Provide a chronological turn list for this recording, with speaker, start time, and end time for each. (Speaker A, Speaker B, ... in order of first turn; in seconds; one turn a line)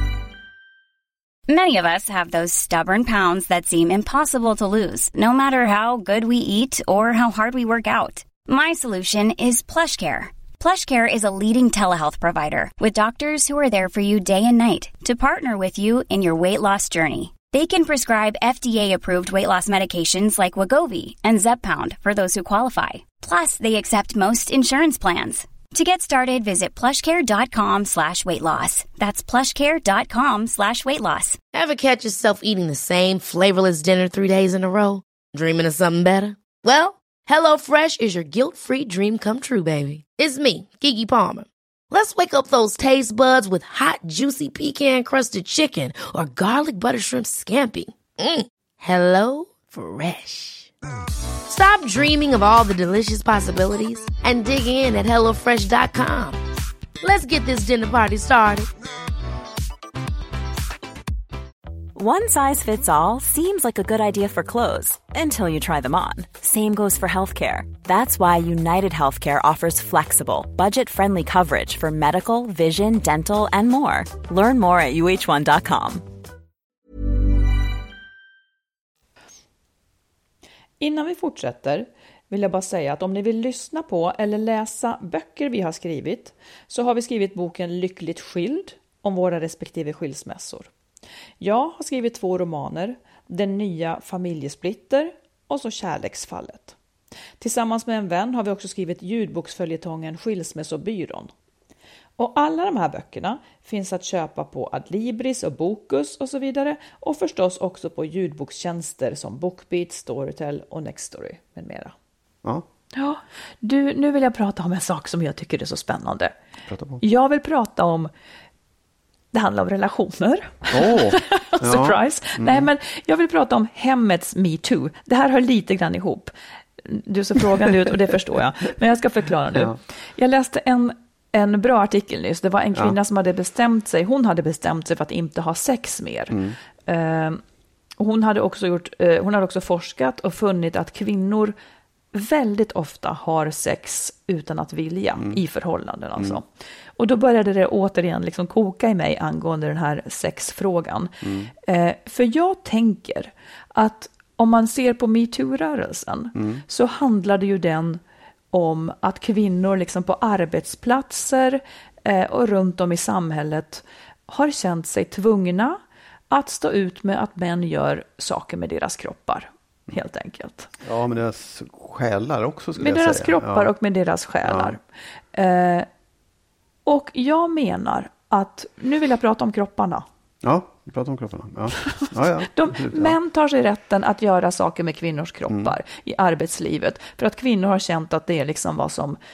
Speaker A: 1.5-31.4
Speaker B: 31.5-50.7
Speaker B: 51.5-56.4
Speaker B: 57.0-58.7
Speaker C: 61.9-76.0
Speaker D: 80.8-90.7
Speaker D: 91.4-96.8
Speaker D: 97.4-101.3
Speaker D: 102.2-111.9
Speaker D: 113.0-116.3
Speaker E: 116.7-117.0
Speaker D: 117.0-118.1
Speaker D: 119.3-126.3
Speaker E: 120.7-122.7
Speaker D: 126.8-137.4
Speaker E: 129.5-129.8
Speaker E: 136.3-136.6
Speaker D: 138.0-141.5
Speaker D: 142.1-146.4
Speaker D: 147.0-158.0
Speaker E: 151.2-151.5
Speaker E: 156.3-156.6
Speaker D: 158.5-165.8
Speaker D: 166.3-170.7
Speaker E: 170.8-173.7
Speaker D: 172.8-174.8
Speaker E: 174.4-174.8
Speaker D: 175.3-175.9
Speaker D: 176.8-180.1
Speaker E: 180.4-183.2
Speaker D: 182.0-189.2
Speaker E: 185.5-185.7